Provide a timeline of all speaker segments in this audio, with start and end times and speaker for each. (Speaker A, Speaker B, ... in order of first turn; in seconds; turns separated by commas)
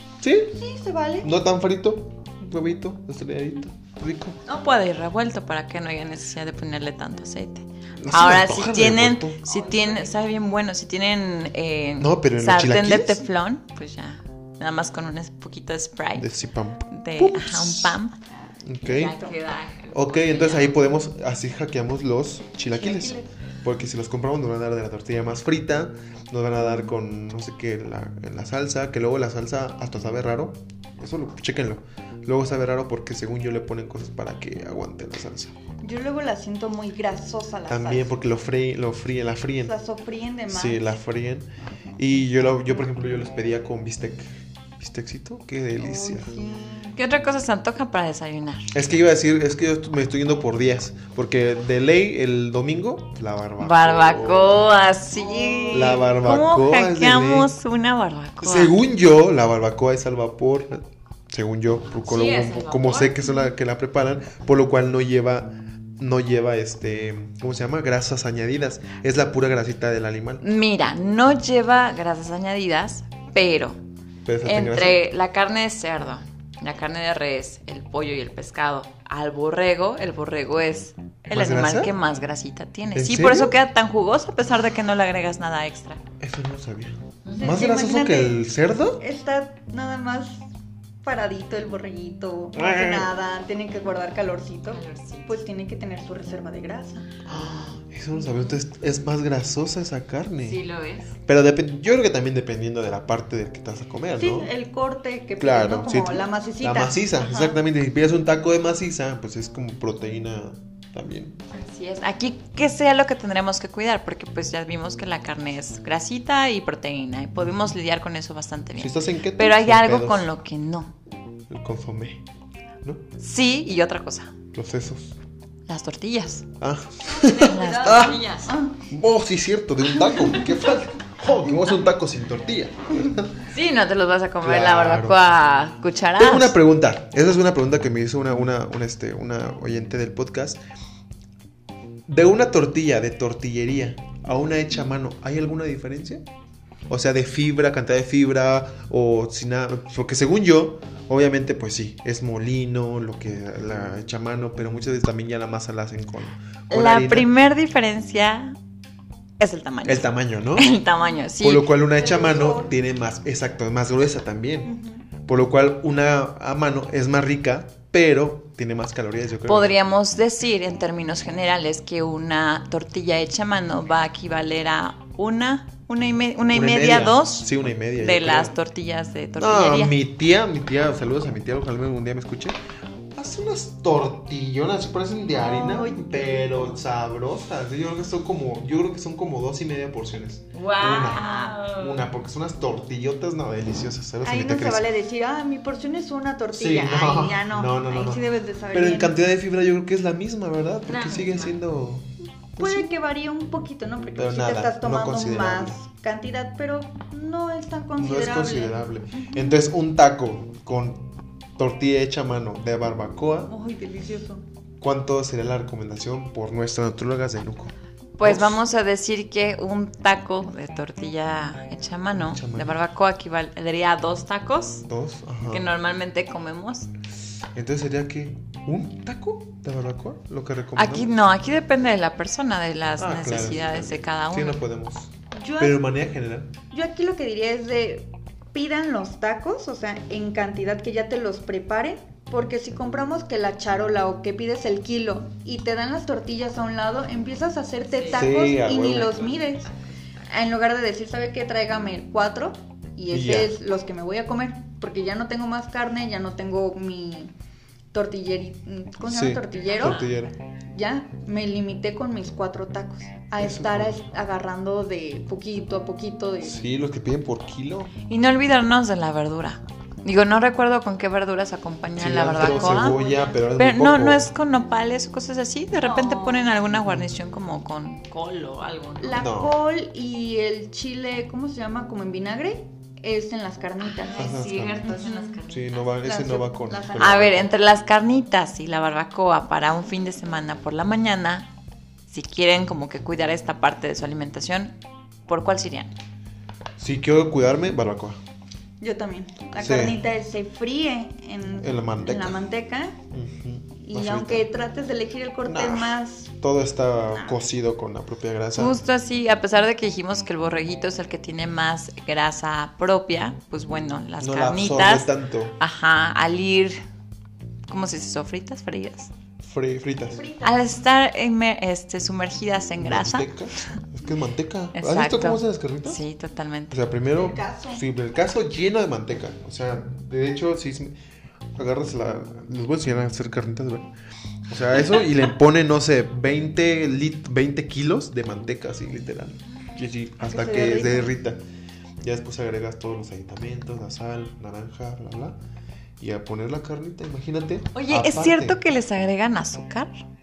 Speaker A: 0.2-0.6, Speaker B: 0.5-1.3, Speaker A: 1.2-4.4, Speaker C: 4.5-16.3, Speaker A: 8.0-9.4, Speaker B: 9.5-10.1, Speaker A: 12.0-13.2, Speaker A: 16.1-18.0, Speaker C: 16.9-18.2, Speaker A: 18.6-19.2, Speaker C: 18.8-20.8, Speaker A: 19.9-35.5, Speaker B: 22.8-23.3, Speaker B: 35.8-38.2, Speaker A: 37.7-39.7, Speaker B: 39.6-40.9, Speaker A: 40.5-46.3, Speaker B: 45.8-47.0, Speaker C: 47.0-48.7, Speaker A: 48.7-54.7, Speaker C: 53.6-58.8, Speaker B: 55.3-56.0, Speaker A: 55.7-57.5, Speaker A: 58.4-70.4, Speaker C: 62.0-63.4, Speaker C: 70.4-73.8, Speaker A: 74.2-75.0, Speaker C: 74.5-86.0, Speaker A: 81.3-81.9, Speaker A: 82.9-83.5, Speaker A: 86.2-89.0, Speaker C: 87.3-87.6, Speaker B: 87.4-88.4, Speaker B: 89.0-90.4, Speaker B: 91.0-97.1, Speaker A: 92.5-93.1, Speaker C: 94.7-95.3, Speaker C: 97.3-97.8, Speaker A: 97.3-100.6, Speaker C: 100.4-101.1, Speaker A: 101.2-104.5, Speaker B: 104.2-107.6, Speaker A: 105.4-111.4, Speaker C: 111.5-120.9, Speaker A: 118.8-120.3, Speaker A: 121.5-122.2, Speaker C: 123.2-124.3, Speaker A: 124.5-125.2, Speaker C: 125.7-126.5, Speaker A: 126.6-128.2, Speaker B: 127.2-128.8, Speaker C: 127.2-128.6, Speaker A: 128.9-133.5, Speaker C: 133.5-136.6, Speaker A: 134.4-135.2, Speaker A: 136.2-140.6, Speaker A: 142.1-146.2, Speaker A: 146.9-157.3, Speaker C: 156.7-158.6, Speaker C: 159.4-161.7, Speaker A: 159.9-160.7, Speaker A: 161.4-164.7, Speaker B: 161.9-162.7, Speaker B: 164.7-165.0, Speaker A: 165.3-169.8, Speaker C: 169.5-180.0, Speaker A: 176.5-178.5, Speaker A: 179.4-182.6, Speaker A: 183.2-194.8, Speaker B: 185.3-186.6, Speaker C: 190.5-192.1, Speaker B: 194.2-199.2, Speaker A: 196.5-202.9, Speaker C: 200.9-201.6, Speaker B: 202.6-209.6, Speaker A: 204.2-205.8, Speaker A: 208.0-213.5, Speaker B: 213.5-214.4, Speaker A: 214.8-218.6, Speaker C: 218.2-224.9, Speaker A: 222.1-222.8, Speaker A: 224.9-225.7, Speaker C: 225.5-226.9, Speaker A: 227.6-231.2, Speaker C: 230.8-234.6, Speaker A: 233.0-236.5, Speaker B: 235.3-235.8, Speaker B: 236.7-249.7, Speaker C: 247.9-248.3, Speaker A: 248.1-249.4, Speaker C: 249.4-250.3, Speaker B: 250.3-257.3, Speaker A: 253.1-253.6, Speaker B: 257.9-260.1, Speaker A: 259.1-260.3, Speaker C: 259.6-260.1, Speaker B: 260.7-266.6, Speaker A: 263.4-264.0, Speaker A: 266.4-267.9, Speaker C: 268.1-273.0, Speaker A: 272.0-274.3, Speaker B: 272.3-273.4, Speaker C: 273.6-279.2, Speaker B: 275.8-276.6, Speaker A: 276.8-277.1, Speaker B: 279.0-285.4, Speaker A: 279.2-279.6, Speaker C: 283.8-285.9, Speaker A: 284.2-285.0, Speaker A: 285.5-287.5, Speaker B: 286.0-287.3, Speaker C: 287.0-291.5, Speaker C: 292.1-295.9, Speaker A: 296.8-298.2, Speaker B: 298.8-303.0, Speaker A: 299.6-300.0, Speaker A: 301.6-302.4, Speaker A: 303.1-304.5, Speaker B: 303.8-306.3, Speaker A: 305.4-308.8, Speaker C: 308.6-316.8, Speaker A: 314.2-315.6, Speaker C: 317.7-319.1, Speaker A: 319.4-320.2, Speaker B: 320.1-320.7, Speaker C: 320.4-323.3, Speaker A: 322.8-326.0, Speaker C: 324.8-326.8, Speaker A: 326.7-330.9, Speaker B: 327.1-327.8, Speaker A: 331.6-333.9, Speaker A: 334.5-341.4, Speaker B: 340.2-341.1, Speaker A: 342.0-345.4, Speaker A: 346.0-348.6, Speaker C: 347.7-349.9